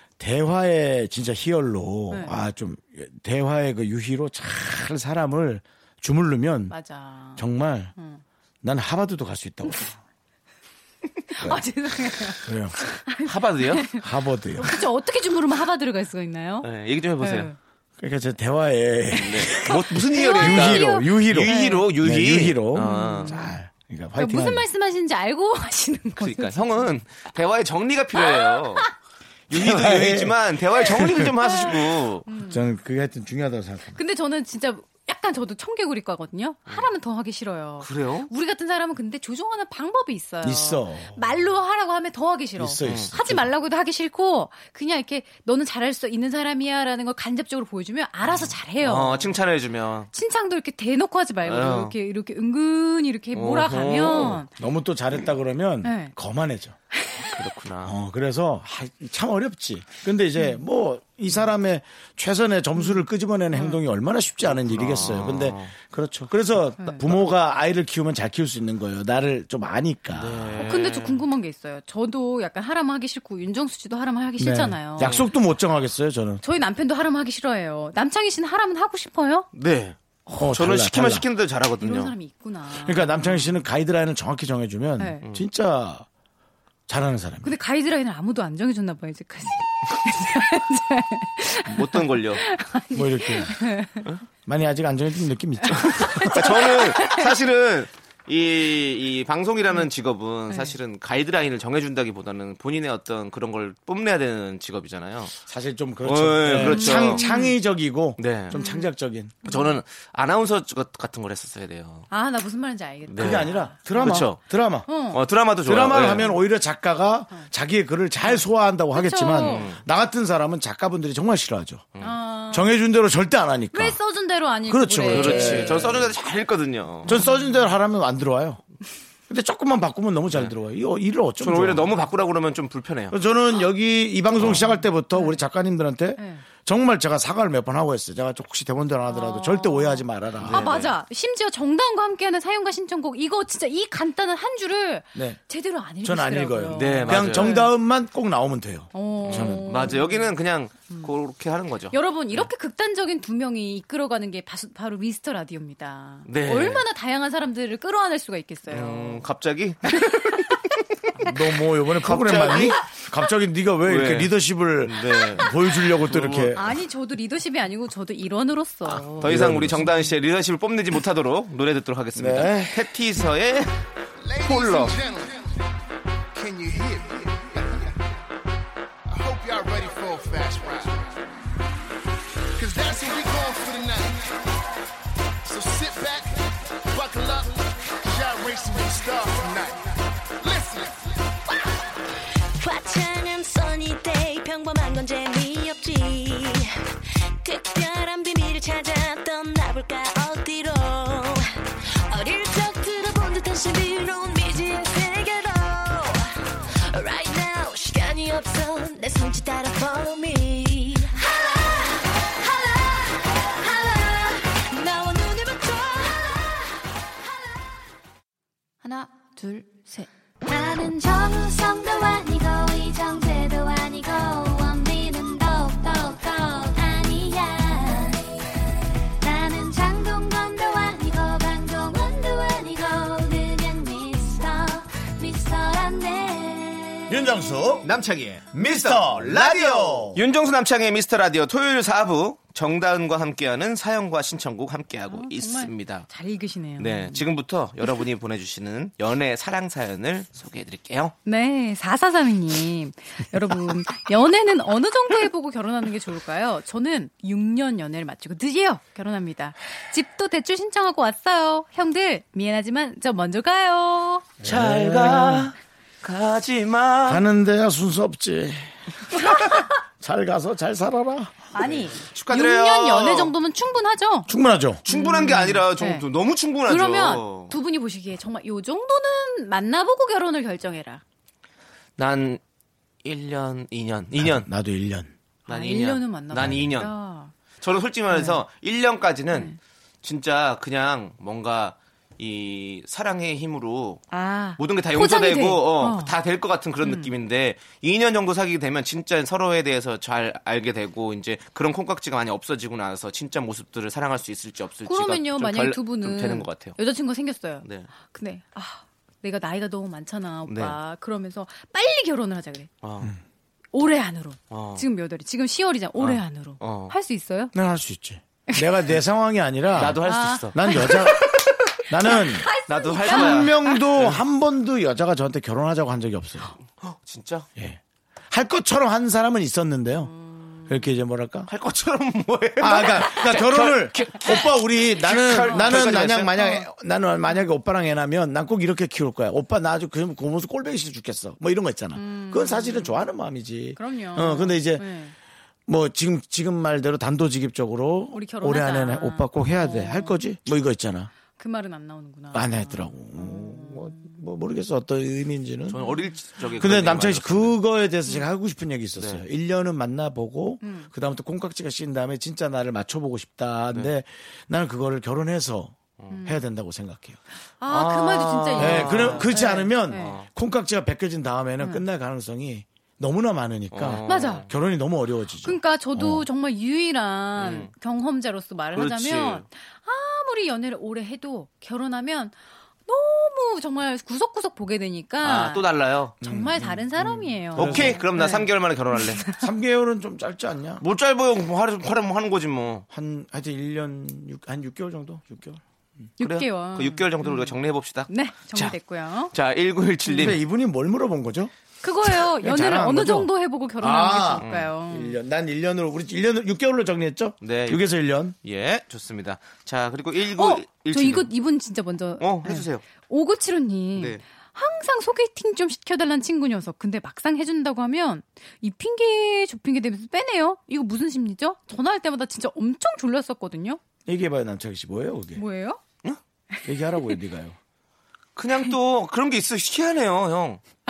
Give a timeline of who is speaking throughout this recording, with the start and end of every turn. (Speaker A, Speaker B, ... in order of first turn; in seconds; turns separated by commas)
Speaker A: 0.2-6.8, Speaker B: 6.7-7.4, Speaker A: 7.4-7.9, Speaker B: 8.0-8.2, Speaker A: 8.6-9.9, Speaker B: 11.3-16.7, Speaker A: 11.4-11.6, Speaker A: 12.4-12.8, Speaker C: 13.2-13.9, Speaker A: 14.0-14.7, Speaker C: 16.6-17.5, Speaker B: 17.2-17.6, Speaker A: 18.0-24.7, Speaker C: 19.1-23.4, Speaker B: 20.0-21.9, Speaker B: 22.8-23.6, Speaker B: 24.2-26.9, Speaker C: 26.2-28.9, Speaker B: 28.2-28.9, Speaker C: 29.5-32.3, Speaker A: 29.5-31.6, Speaker B: 31.4-32.7, Speaker A: 32.4-34.0, Speaker B: 34.0-49.3, Speaker C: 37.8-38.3, Speaker A: 40.4-41.2, Speaker A: 42.6-43.5, Speaker C: 42.8-43.2, Speaker C: 48.3-50.1, Speaker B: 50.1-54.5, Speaker C: 51.5-51.9, Speaker C: 53.3-54.4, Speaker A: 54.5-56.8, Speaker B: 55.8-56.1, Speaker B: 57.0-57.3, Speaker C: 57.2-58.0, Speaker A: 57.8-70.7, Speaker B: 62.8-63.0, Speaker B: 63.5-63.8, Speaker C: 64.5-65.7, Speaker B: 66.8-67.1, Speaker C: 70.1-71.2, Speaker B: 70.6-75.2, Speaker A: 74.4-76.4, Speaker C: 75.0-75.3, Speaker B: 76.4-79.5, Speaker C: 79.5-82.2, Speaker A: 80.3-81.3, Speaker B: 81.8-83.5, Speaker A: 82.8-86.1, Speaker B: 85.0-85.2, Speaker A: 86.9-87.5, Speaker B: 87.4-94.1, Speaker C: 91.7-92.4, Speaker A: 92.9-93.6, Speaker A: 94.5-96.6, Speaker B: 95.7-97.3, Speaker C: 95.7-105.3, Speaker B: 100.5-100.8, Speaker A: 105.4-109.4, Speaker C: 106.0-107.3, Speaker B: 106.6-107.6, Speaker C: 108.2-108.7, Speaker B: 108.5-108.9, Speaker B: 109.4-109.8, Speaker C: 109.4-112.1, Speaker B: 112.1-114.3, Speaker C: 113.0-114.4, Speaker A: 113.2-114.9, Speaker B: 114.9-115.2, Speaker C: 114.9-116.3, Speaker A: 115.6-121.9, Speaker B: 116.0-116.4, Speaker B: 118.2-119.8, Speaker C: 119.3-119.8, Speaker B: 122.0-122.7, Speaker A: 122.5-124.0, Speaker B: 123.7-126.0, Speaker A: 124.6-126.1, Speaker C: 125.1-127.3, Speaker B: 127.1-127.7, Speaker A: 127.1-128.6, Speaker A: 129.3-131.9, Speaker C: 131.4-133.2, Speaker A: 133.1-140.8, Speaker C: 134.4-134.7, Speaker B: 135.1-135.4, Speaker B: 136.2-136.4, Speaker B: 139.1-147.7, Speaker C: 140.4-140.9, Speaker A: 145.2-145.4, Speaker A: 146.0-150.0, Speaker C: 146.7-147.7, Speaker B: 148.9-151.1, Speaker C: 149.2-152.5, Speaker B: 151.9-159.2, Speaker C: 156.3-156.8, Speaker C: 158.7-160.5, Speaker A: 161.2-166.8, Speaker C: 162.0-162.9, Speaker C: 163.8-166.6, Speaker B: 166.6-169.4, Speaker C: 168.9-173.8, Speaker A: 169.2-170.1, Speaker A: 172.2-172.8, Speaker D: 174.2-175.5, Speaker C: 174.5-174.9, Speaker D: 176.3-177.9, Speaker D: 179.1-181.1, Speaker D: 182.6-184.2, Speaker D: 185.4-191.0, Speaker E: 192.6-196.7, Speaker E: 197.4-201.4, Speaker E: 202.1-206.3, Speaker E: 206.9-217.7, Speaker E: 218.8-228.3, Speaker E: 229.2-237.2, Speaker A: 237.1-237.9, Speaker C: 237.8-246.1, Speaker A: 238.5-240.2, Speaker B: 245.1-247.3, Speaker C: 246.8-251.2, Speaker B: 251.3-264.3, Speaker A: 264.4-265.5, Speaker C: 264.4-267.2, Speaker A: 267.1-271.9, Speaker B: 271.5-274.3, Speaker C: 272.0-273.3, Speaker A: 274.3-274.8, Speaker C: 274.9-277.6, Speaker B: 274.9-276.1, Speaker B: 276.7-281.0, Speaker C: 282.0-282.4, Speaker C: 283.0-284.5, Speaker A: 284.2-285.1, Speaker C: 285.5-286.9, Speaker B: 285.5-287.3, Speaker A: 286.3-286.8, Speaker C: 287.6-294.1, Speaker B: 288.1-288.4, Speaker B: 289.3-289.6, Speaker B: 294.1-296.1, Speaker C: 294.6-306.8, Speaker B: 296.8-297.1, Speaker B: 304.9-312.7, Speaker C: 307.6-307.9, Speaker C: 310.5-310.8, Speaker C: 312.8-313.1, Speaker B: 313.7-317.5, Speaker C: 314.5-314.9, Speaker C: 316.0-316.9, Speaker A: 317.5-321.3, Speaker C: 319.7-320.7, Speaker B: 320.0-321.4, Speaker A: 321.9-326.6, Speaker B: 322.0-323.8, Speaker C: 322.5-324.2, Speaker C: 326.8-327.5, Speaker A: 327.6-330.1, Speaker B: 330.1-330.8, Speaker A: 330.6-331.5, Speaker C: 331.5-336.4, Speaker A: 332.6-344.9, Speaker B: 335.3-336.6, Speaker B: 341.9-343.0, Speaker B: 343.8-345.1, Speaker A: 345.7-351.1, Speaker B: 348.1-350.2, Speaker B: 351.3-354.1, Speaker A: 352.3-355.9, Speaker C: 355.7-357.6, Speaker A: 356.6-367.2, Speaker C: 359.0-359.2, Speaker B: 360.6-360.9, Speaker B: 366.1-366.4, Speaker B: 367.6-370.2, Speaker C: 367.6-370.3, Speaker A: 368.6-376.2, Speaker C: 373.7-374.5, Speaker B: 374.1-374.5, Speaker B: 375.4-385.7, Speaker C: 377.4-377.7, Speaker C: 378.7-379.5, Speaker C: 385.2-386.2, Speaker A: 386.2-388.1, Speaker B: 386.2-389.4, Speaker C: 387.5-389.3, Speaker A: 389.3-390.8, Speaker C: 390.8-392.9, Speaker A: 392.9-395.6, Speaker B: 396.2-397.6, Speaker C: 396.2-398.8, Speaker B: 398.1-399.3, Speaker C: 399.3-400.4, Speaker A: 400.1-401.5, Speaker B: 401.8-405.2, Speaker A: 402.1-408.4, Speaker C: 404.4-404.7, Speaker C: 407.4-407.8, Speaker C: 408.4-411.3, Speaker B: 410.4-423.8, Speaker C: 412.2-412.9, Speaker C: 413.9-414.2, Speaker A: 424.1-425.4, Speaker B: 425.4-425.8, Speaker B: 426.5-427.2, Speaker A: 426.6-427.6, Speaker C: 428.4-430.6